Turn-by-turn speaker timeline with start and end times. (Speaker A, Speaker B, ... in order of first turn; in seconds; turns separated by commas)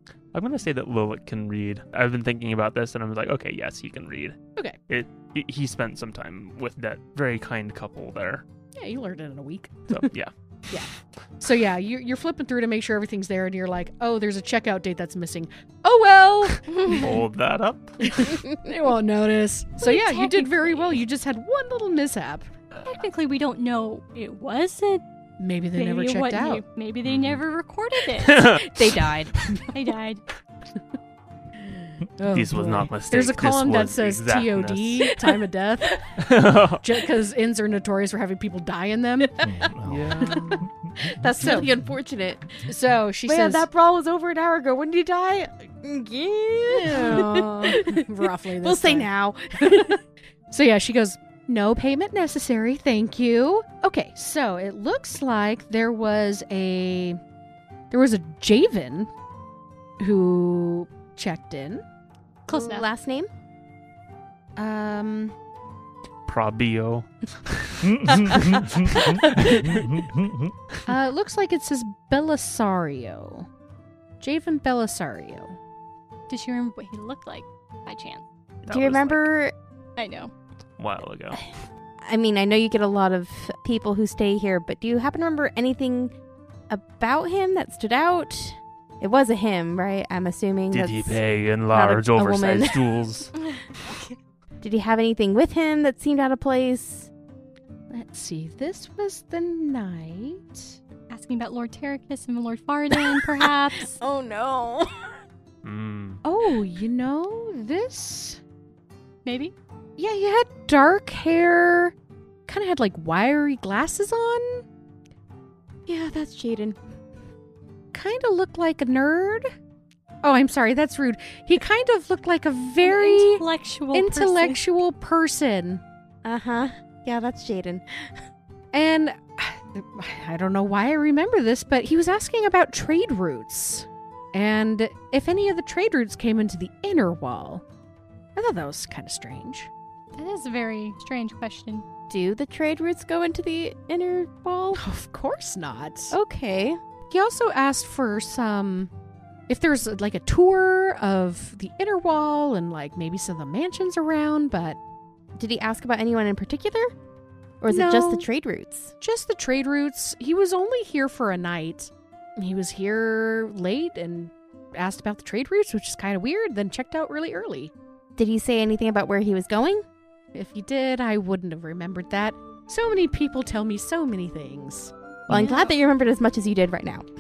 Speaker A: 0.3-8.4, Speaker B: 8.8-10.1, Speaker A: 9.9-10.3, Speaker B: 10.7-17.1, Speaker C: 16.8-17.2, Speaker A: 16.8-18.2, Speaker B: 18.0-22.5, Speaker C: 19.8-21.0, Speaker C: 22.9-25.0, Speaker B: 25.4-26.6, Speaker C: 25.8-28.6, Speaker A: 27.0-27.4, Speaker A: 28.2-28.6, Speaker D: 28.7-29.4, Speaker C: 29.7-30.2, Speaker B: 32.2-39.5, Speaker A: 32.3-35.1, Speaker A: 36.2-36.9, Speaker E: 39.4-40.9, Speaker A: 39.9-40.6, Speaker B: 40.2-40.6, Speaker D: 41.0-42.6, Speaker B: 41.4-41.7, Speaker B: 42.7-43.7, Speaker D: 43.3-48.1, Speaker B: 46.8-50.0, Speaker D: 48.6-50.0, Speaker B: 50.5-57.2, Speaker B: 57.9-59.1, Speaker B: 60.0-61.8, Speaker D: 62.5-63.3, Speaker C: 62.5-62.9, Speaker B: 64.6-65.3, Speaker A: 66.3-69.7, Speaker E: 67.8-70.6, Speaker B: 70.9-73.5, Speaker B: 74.2-75.6, Speaker C: 76.3-78.2, Speaker A: 78.7-79.3, Speaker D: 78.7-79.5, Speaker C: 80.0-80.3, Speaker A: 80.8-81.4, Speaker D: 82.0-86.1, Speaker D: 86.7-92.8, Speaker A: 90.7-93.3, Speaker C: 93.5-94.2, Speaker D: 94.6-97.1, Speaker B: 97.9-100.8, Speaker C: 101.1-104.0, Speaker D: 103.0-105.2, Speaker A: 105.6-106.2, Speaker B: 106.2-108.4, Speaker C: 109.2-109.5, Speaker B: 110.0-111.9, Speaker B: 112.5-114.6, Speaker D: 115.9-116.8, Speaker B: 117.9-119.5, Speaker B: 120.2-125.8, Speaker C: 122.8-124.6, Speaker D: 126.2-128.2, Speaker B: 128.7-137.6, Speaker B: 138.4-139.7, Speaker C: 140.2-141.8, Speaker D: 142.1-144.8, Speaker B: 144.7-146.2, Speaker D: 146.1-146.8, Speaker B: 147.1-148.9, Speaker B: 149.5-154.8, Speaker D: 155.4-156.9, Speaker D: 157.6-158.9, Speaker B: 157.7-158.3, Speaker B: 159.0-167.7, Speaker D: 168.2-169.8, Speaker B: 170.3-174.9, Speaker D: 175.3-177.1, Speaker C: 175.3-175.7